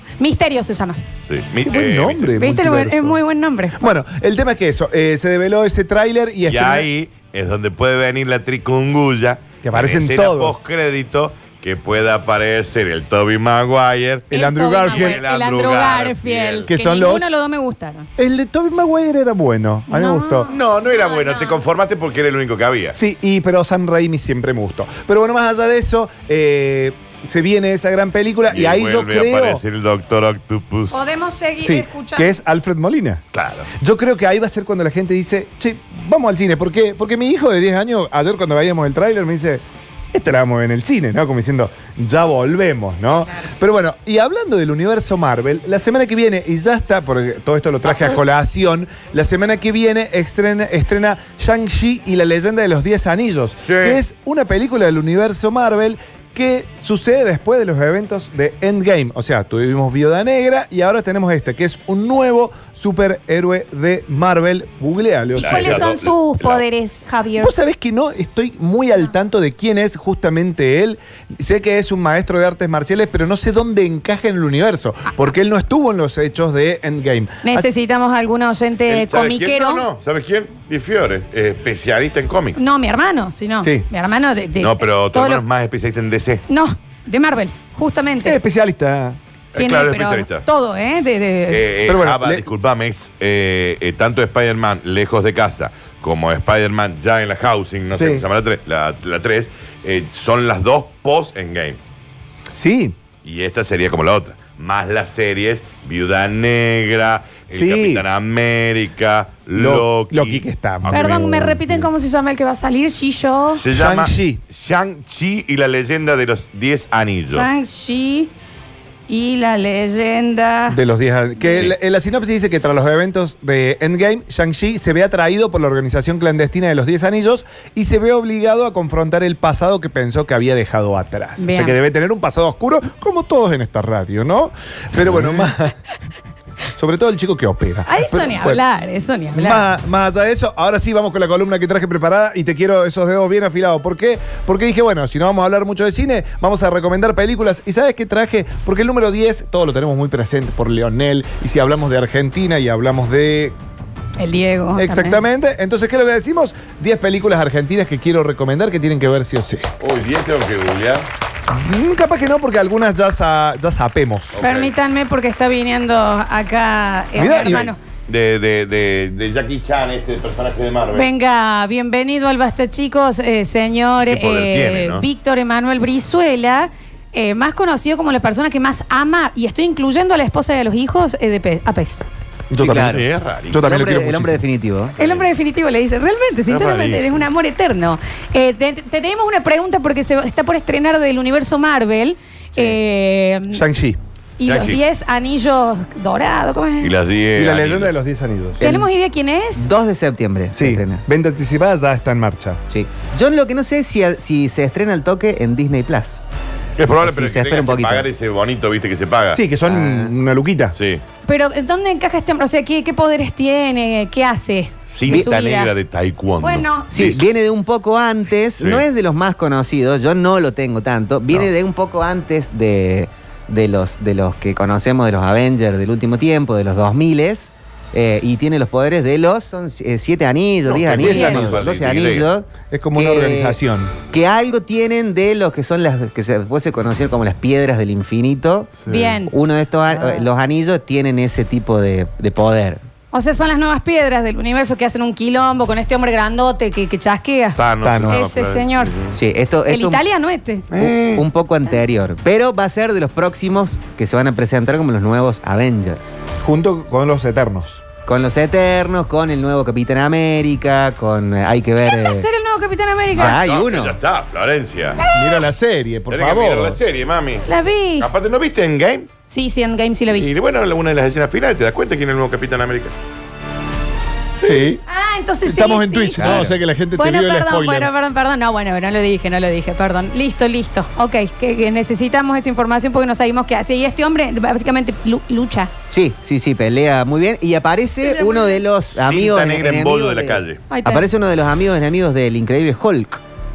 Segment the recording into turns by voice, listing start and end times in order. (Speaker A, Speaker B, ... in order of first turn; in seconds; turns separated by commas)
Speaker A: 0.2-1.0, Speaker B: 1.3-2.4, Speaker C: 1.7-3.2, Speaker A: 2.4-3.9, Speaker C: 3.8-6.9, Speaker B: 6.5-16.7, Speaker C: 9.6-10.6, Speaker C: 14.3-15.2, Speaker A: 14.3-18.1, Speaker C: 16.7-17.3, Speaker C: 18.2-20.5, Speaker A: 19.9-21.6, Speaker B: 20.5-23.0, Speaker C: 22.9-29.6, Speaker B: 28.5-31.0, Speaker A: 30.9-32.4, Speaker C: 31.6-33.2, Speaker B: 33.3-33.7, Speaker C: 33.8-65.9, Speaker A: 43.1-43.5, Speaker B: 53.6-54.0, Speaker A: 65.4-67.5, Speaker B: 65.4-66.6, Speaker C: 67.4-77.7, Speaker A: 77.4-79.8, Speaker B: 78.9-82.6, Speaker A: 82.6-85.4, Speaker B: 84.6-86.4, Speaker A: 86.5-88.4, Speaker C: 88.2-89.2, Speaker B: 89.5-90.5, Speaker A: 89.5-91.6, Speaker B: 91.5-101.8, Speaker C: 91.9-92.5, Speaker C: 98.0-98.2, Speaker C: 102.6-103.0, Speaker B: 103.2-111.2, Speaker C: 107.5-108.0, Speaker C: 109.5-111.9, Speaker A: 110.9-113.6, Speaker B: 113.5-117.5, Speaker C: 113.7-114.4, Speaker A: 117.3-118.3, Speaker A: 119.1-120.8, Speaker C: 120.7-135.7, Speaker A: 131.4-131.8, Speaker C: 136.8-138.6, Speaker A: 137.9-139.7, Speaker C: 139.3-153.6, Speaker A: 154.2-155.2, Speaker C: 154.8-159.7, Speaker B: 159.8-161.1, Speaker C: 161.5-164.4, Speaker B: 164.3-164.7, Speaker A: 164.4-167.8, Speaker C: 167.2-167.7, Speaker B: 167.4-171.1, Speaker A: 170.9-182.0, Speaker B: 174.1-175.1, Speaker C: 182.5-184.4, Speaker D: 182.6-183.0, Speaker B: 182.6-183.8, Speaker D: 183.6-184.9, Speaker B: 185.0-185.3, Speaker A: 185.0-193.6, Speaker B: 186.5-187.2, Speaker C: 193.5-194.0, Speaker A: 194.4-196.9, Speaker B: 194.4-194.8, Speaker B: 196.8-198.0, Speaker C: 197.4-198.6, Speaker D: 198.6-198.9, Speaker A: 198.6-199.7, Speaker D: 199.6-201.0, Speaker C: 200.6-202.6, Speaker D: 202.7-206.2, Speaker B: 206.8-209.4, Speaker D: 207.0-208.1, Speaker C: 209.3-210.8, Speaker D: 209.7-210.1, Speaker B: 210.8-211.0, Speaker A: 211.3-215.7, Speaker B: 214.9-217.3, Speaker A: 216.4-216.9, Speaker D: 216.9-233.6, Speaker B: 218.6-218.8, Speaker B: 230.7-232.3, Speaker C: 230.9-231.6, Speaker A: 231.1-231.4, Speaker C: 232.7-233.9, Speaker D: 234.1-242.8, Speaker A: 238.9-239.3, Speaker A: 243.1-247.6, Speaker B: 247.6-249.2, Speaker C: 247.8-248.2, Speaker A: 248.1-248.9, Speaker D: 249.1-250.0, Speaker A: 249.7-250.7, Speaker B: 250.7-251.3, Speaker D: 250.8-256.2, Speaker C: 256.4-257.8, Speaker D: 258.1-262.3, Speaker A: 261.8-263.4, Speaker D: 263.1-264.0, Speaker B: 263.2-265.0, Speaker A: 265.0-265.4, Speaker C: 265.1-266.8, Speaker B: 266.1-267.5, Speaker A: 267.5-268.1, Speaker B: 268.0-269.1, Speaker A: 269.3-270.3, Speaker B: 270.1-272.9, Speaker C: 274.4-274.8, Speaker A: 274.9-276.4, Speaker C: 275.4-277.9, Speaker D: 276.2-276.5, Speaker A: 277.0-285.7, Speaker D: 285.9-293.2, Speaker A: 288.0-288.6, Speaker B: 288.9-290.6, Speaker A: 290.7-291.1